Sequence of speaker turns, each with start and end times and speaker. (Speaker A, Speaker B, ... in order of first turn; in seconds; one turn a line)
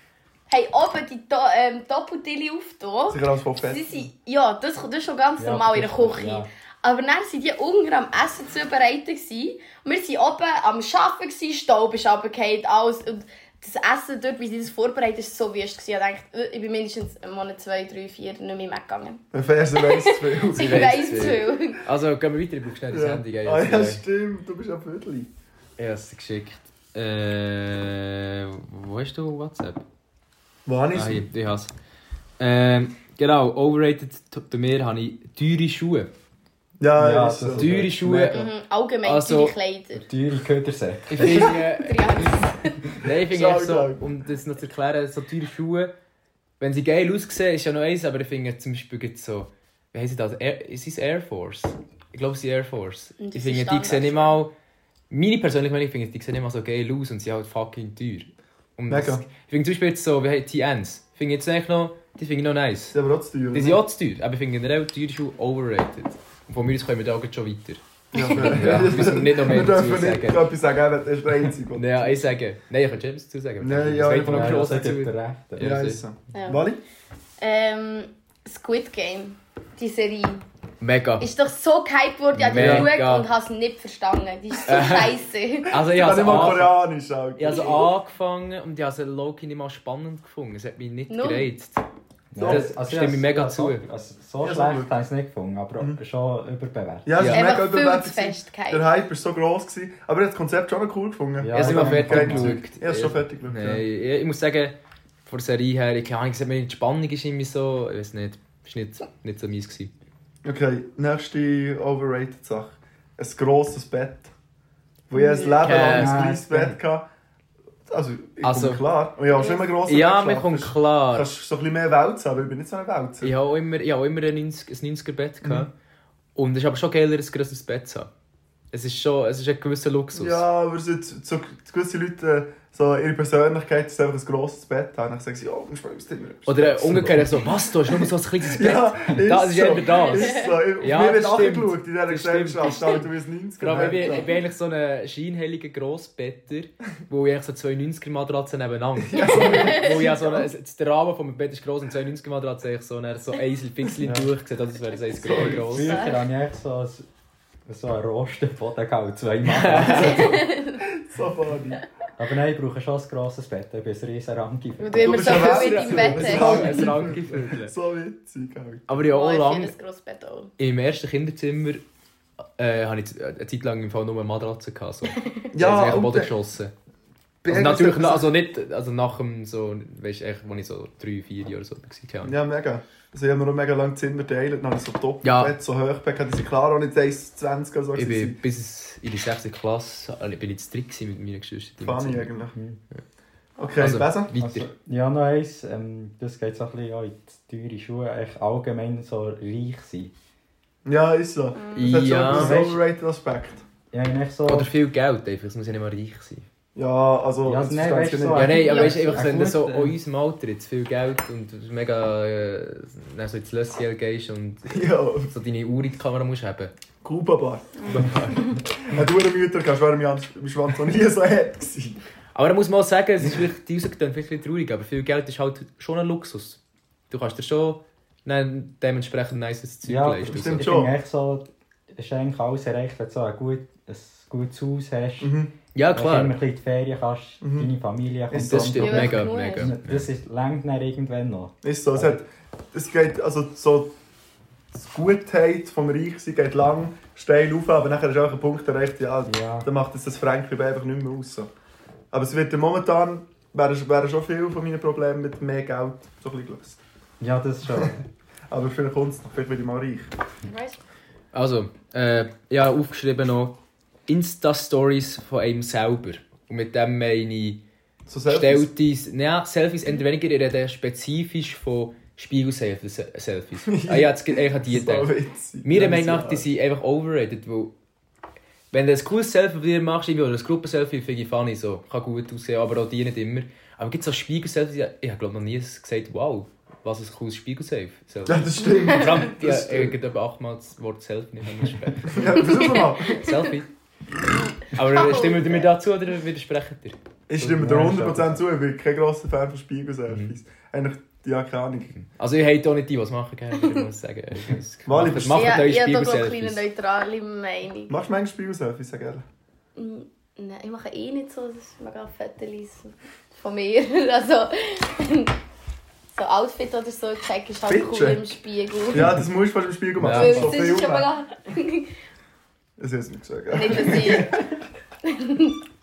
Speaker A: 0.5-19.2
Speaker B: 3.1-3.9
Speaker C: 5.4-6.5
Speaker B: 19.3-21.3
Speaker A: 19.7-21.8
Speaker D: 20.5-24.0
Speaker B: 22.9-25.3
Speaker D: 25.8-29.8
Speaker B: 30.6-31.3
Speaker D: 30.9-31.7
Speaker D: 32.4-36.1
Speaker B: 36.8-38.4
Speaker C: 37.0-38.3
Speaker D: 37.5-38.5
Speaker A: 38.3-40.0
Speaker D: 39.0-39.5
Speaker C: 39.9-41.5
Speaker D: 41.1-45.9
Speaker A: 41.2-42.9
Speaker B: 43.2-44.0
Speaker D: 46.6-54.5
Speaker A: 53.2-54.4
Speaker D: 55.1-63.0
Speaker B: 58.9-59.2
Speaker B: 62.9-63.8
Speaker D: 63.5-67.8
Speaker B: 68.1-72.3
Speaker A: 68.2-68.6
Speaker D: 68.3-70.5
Speaker D: 71.7-76.0
Speaker B: 73.6-74.9
Speaker C: 74.2-75.8
Speaker B: 75.6-76.8
Speaker A: 76.3-76.6
Speaker A: 77.4-80.4
Speaker D: 80.8-81.3
Speaker A: 81.2-85.8
Speaker D: 82.3-83.3
Speaker C: 82.5-82.9
Speaker B: 82.6-82.8
Speaker D: 84.7-85.1
Speaker D: 85.7-86.8
Speaker B: 85.8-87.9
Speaker D: 87.4-91.8
Speaker A: 91.1-91.5
Speaker C: 92.3-97.1
Speaker B: 92.4-92.7
Speaker D: 92.4-93.8
Speaker B: 94.4-94.9
Speaker B: 97.0-103.8
Speaker D: 97.2-97.5
Speaker A: 97.3-98.9
Speaker C: 101.4-102.6
Speaker D: 101.5-109.9
Speaker B: 110.4-114.3
Speaker B: 115.1-117.1
Speaker A: 115.1-115.7
Speaker D: 115.6-116.7
Speaker C: 115.7-116.7
Speaker B: 117.9-123.3
Speaker D: 118.4-118.8
Speaker A: 119.3-119.7
Speaker D: 119.8-121.3
Speaker D: 123.2-125.7
Speaker B: 125.4-125.7
Speaker D: 126.3-128.1
Speaker D: 128.7-130.4
Speaker B: 130.1-144.2
Speaker D: 136.4-143.0
Speaker A: 139.9-140.6
Speaker A: 142.7-143.0
Speaker D: 143.6-156.0
Speaker A: 143.9-144.3
Speaker B: 149.0-150.5
Speaker A: 149.1-150.0
Speaker C: 154.0-154.3
Speaker B: 155.1-155.7
Speaker C: 155.3-157.1
Speaker A: 155.7-156.2
Speaker C: 157.7-160.4
Speaker D: 159.5-160.3
Speaker A: 159.9-160.8
Speaker B: 160.8-161.8
Speaker C: 162.2-165.5
Speaker A: 164.8-166.9
Speaker B: 165.0-168.9
Speaker D: 165.3-167.7
Speaker D: 168.9-169.7
Speaker A: 169.1-170.5
Speaker D: 170.6-171.8
Speaker D: 172.6-176.7
Speaker A: 175.2-175.5
Speaker B: 175.5-176.3
Speaker B: 177.4-178.3
Speaker D: 177.5-182.3
Speaker B: 182.2-188.4
Speaker D: 185.2-185.5
Speaker D: 187.9-192.3
Speaker B: 191.8-192.6
Speaker C: 192.5-192.8
Speaker B: 193.6-194.3
Speaker D: 193.8-194.7
Speaker C: 194.4-200.1
Speaker B: 200.8-203.6
Speaker A: 201.5-201.9
Speaker D: 201.7-202.6
Speaker C: 202.3-202.8
Speaker C: 203.9-204.7
Speaker D: 204.5-206.4
Speaker B: 206.7-208.7
Speaker C: 207.4-209.9
Speaker D: 208.3-216.7
Speaker A: 208.6-209.2
Speaker B: 214.7-215.3
Speaker B: 217.0-222.0
Speaker D: 217.9-218.4
Speaker D: 222.3-230.7
Speaker C: 229.8-235.3
Speaker B: 230.3-230.9
Speaker B: 235.2-235.5
Speaker D: 235.7-236.4
Speaker C: 235.9-242.2
Speaker B: 237.4-237.7
Speaker B: 238.3-238.9
Speaker D: 238.3-240.1
Speaker A: 238.8-239.7
Speaker B: 241.6-243.9
Speaker B: 244.7-251.5
Speaker C: 249.2-249.7
Speaker B: 252.1-256.8
Speaker C: 257.2-258.0
Speaker B: 258.5-260.1
Speaker A: 260.4-260.8
Speaker D: 261.3-263.6
Speaker D: 264.1-267.6
Speaker B: 268.1-268.7
Speaker D: 268.3-275.1
Speaker B: 273.7-276.5
Speaker D: 275.6-277.7
Speaker D: 278.7-293.7
Speaker B: 288.2-289.9
Speaker A: 288.6-289.2
Speaker B: 292.0-293.3
Speaker A: 292.3-293.4
Speaker A: 294.5-295.7
Speaker D: 294.7-296.9
Speaker B: 297.3-301.9
Speaker C: 297.4-298.4
Speaker D: 300.1-300.4
Speaker D: 301.9-306.6
Speaker B: 304.9-305.7
Speaker A: 305.3-307.9
Speaker B: 307.9-309.2
Speaker A: 309.8-315.3
Speaker A: 316.1-319.1
Speaker B: 317.7-318.3
Speaker B: 318.9-321.1
Speaker D: 320.0-320.6
Speaker A: 320.1-321.9
Speaker B: 322.8-324.5
Speaker A: 323.5-324.4
Speaker A: 325.0-325.6